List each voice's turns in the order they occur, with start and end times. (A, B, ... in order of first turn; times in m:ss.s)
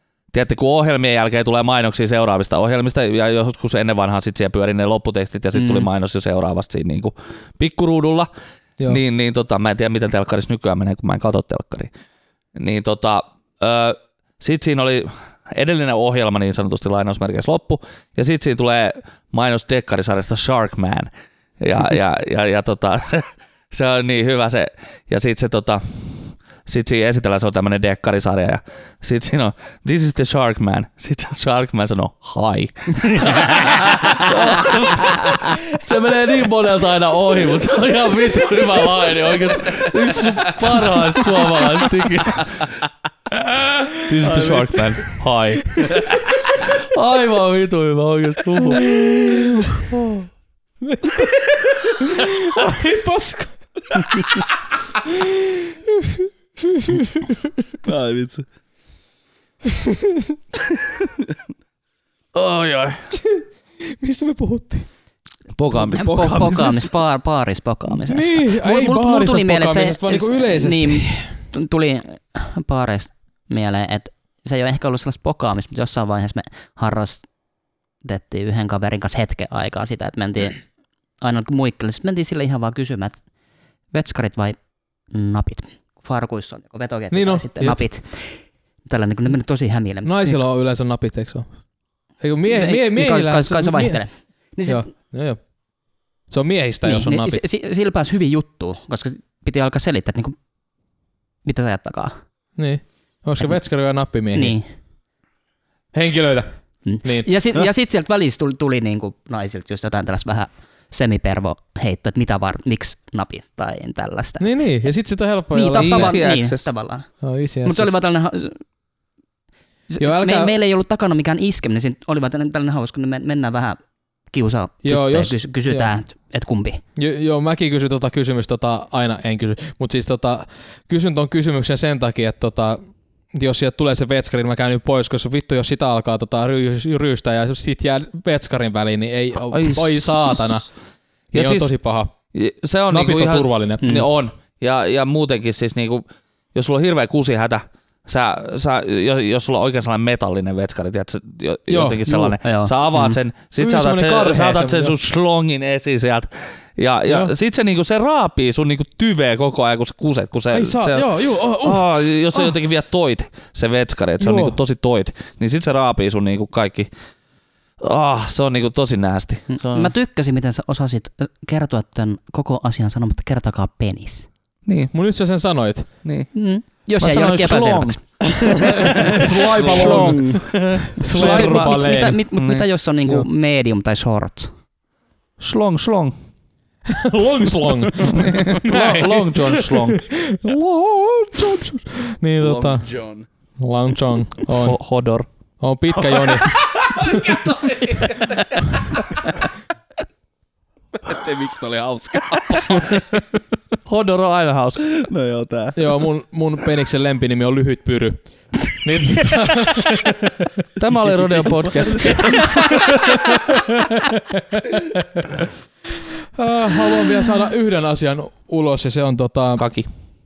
0:00.3-0:08.3 A
0:05.5-0:05.8 B
0:08.8-0:11.9 A
0:12.6-0:21.1 A
0:21.6-0:42.7 A
0:43.7-0:44.8 C
0:43.9-0:49.0 A
0:48.7-0:50.1 C
0:50.8-0:54.4 C
0:55.0-0:57.6 C
0:57.8-0:58.4 D
0:59.6-1:00.4 C
1:02.3-1:03.2 A
1:03.1-1:04.9 C
1:05.6-1:06.6 A
1:05.7-1:06.9 D
1:05.9-1:17.3 B
1:07.9-1:11.3 C
1:18.0-1:20.6 B
1:21.2-1:23.2 B
1:23.9-1:24.6 B
1:25.1-1:28.3 B
1:27.1-1:27.8 C
1:28.8-1:30.4 B
1:30.0-1:31.5 C
1:32.2-1:34.0 C
1:32.5-1:34.9 B
1:34.6-1:35.4 C
1:36.3-1:37.4 C
1:36.8-1:40.3 B
1:41.4-1:42.2 B
1:42.6-1:44.6 C
1:44.3-1:44.6 B
1:45.9-1:46.5 C
1:46.8-1:54.7 B
1:47.0-1:47.3 C
1:54.4-1:56.2 C
1:55.5-1:57.1 B
1:55.8-1:56.6 A
1:57.2-1:58.0 C
1:57.6-1:58.6 B
1:59.9-2:06.8 B
2:00.0-2:00.6 C
2:04.8-2:05.9 C
2:07.0-2:12.8 C
2:13.3-2:20.7 C
2:19.5-2:20.5 A
2:21.3-2:21.7 A
2:21.3-2:22.1 C
2:22.3-2:46.9 A
2:22.9-2:24.1 C
2:23.8-2:24.1 B
2:31.7-2:32.0 C
2:32.1-2:33.2 B
2:33.6-2:35.0 C
2:37.1-2:37.3 C
2:40.5-2:42.5 C
2:44.2-2:44.6 C
2:47.8-2:49.9 A
2:49.5-2:54.3 B
2:54.7-2:54.9 A
2:54.9-2:55.9 C
2:56.0-2:56.3 A
2:56.3-3:00.4 B
2:57.0-3:02.7 A
2:58.8-3:00.4 C
2:59.2-3:00.4 D
3:00.9-3:02.2 C
3:01.0-3:04.5 B
3:05.4-3:06.1 A
3:06.9-3:12.8 C
3:08.1-3:10.0 A
3:12.4-3:13.2 D
3:13.6-3:14.8 C
3:14.5-3:15.3 A
3:15.6-3:17.2 C
3:16.4-3:19.1 D
3:21.0-3:22.9 D
3:23.8-3:24.9 A
3:25.0-3:25.9 D
3:25.8-3:30.6 C
3:30.8-3:33.0 A
3:31.8-3:35.3 C
3:36.4-3:39.6 C
3:39.6-3:39.9 A